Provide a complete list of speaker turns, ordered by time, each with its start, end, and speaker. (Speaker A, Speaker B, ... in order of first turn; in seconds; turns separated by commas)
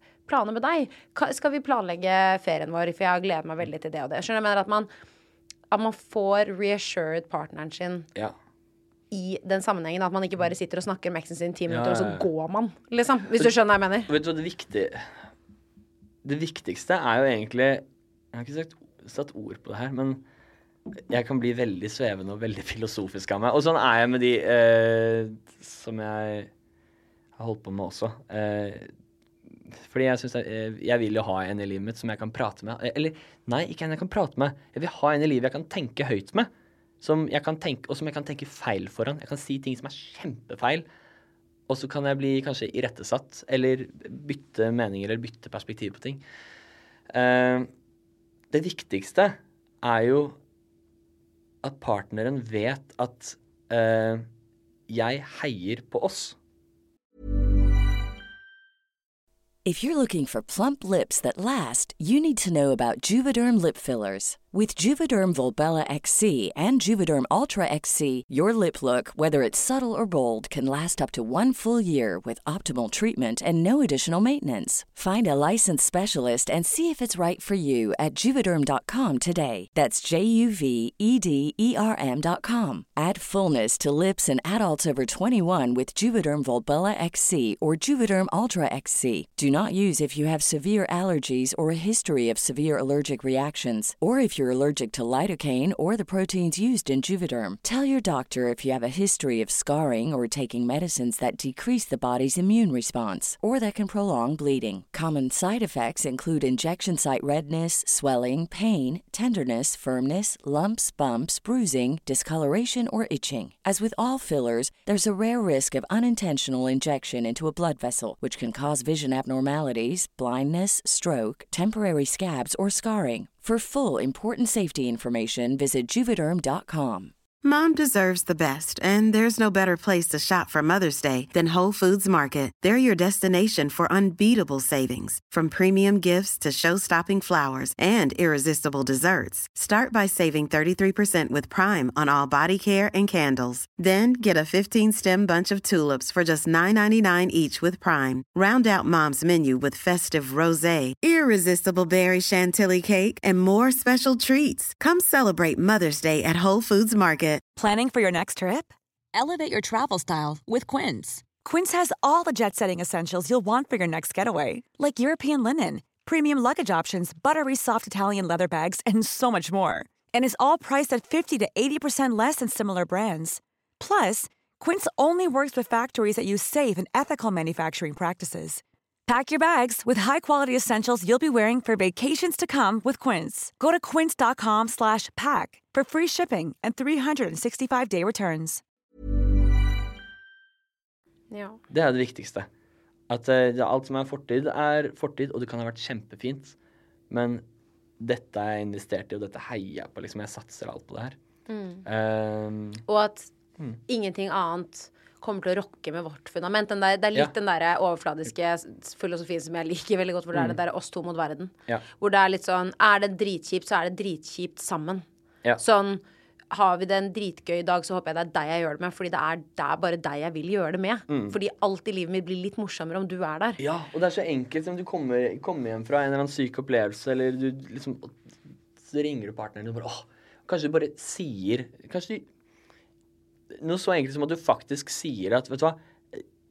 Speaker A: 0.3-4.9, Speaker A: 5.7-8.1, Speaker A: 9.1-14.1, Speaker B: 11.7-12.3, Speaker B: 14.1-15.1, Speaker B: 16.2-20.2, Speaker B: 21.1-26.5, Speaker B: 27.4-28.9, Speaker B: 29.7-36.5, Speaker B: 37.0-40.9, Speaker B: 41.7-46.2, Speaker B: 47.1-47.7, Speaker B: 48.5-50.4, Speaker B: 51.6-54.2, Speaker B: 54.9-56.4, Speaker C: 59.6-127.1, Speaker D: 127.4-157.4, Speaker E: 157.6-188.6, Speaker A: 191.3-191.6, Speaker B: 191.7-192.5, Speaker B: 193.1-196.5, Speaker B: 197.1-197.4, Speaker B: 198.0-201.2, Speaker A: 201.5-201.8, Speaker B: 201.8-202.8, Speaker A: 202.9-203.3, Speaker A: 203.9-215.0, Speaker A: 215.6-223.6, Speaker B: 221.1-221.3, Speaker B: 223.6-228.2, Speaker B: 228.8-232.2, Speaker B: 233.5-236.2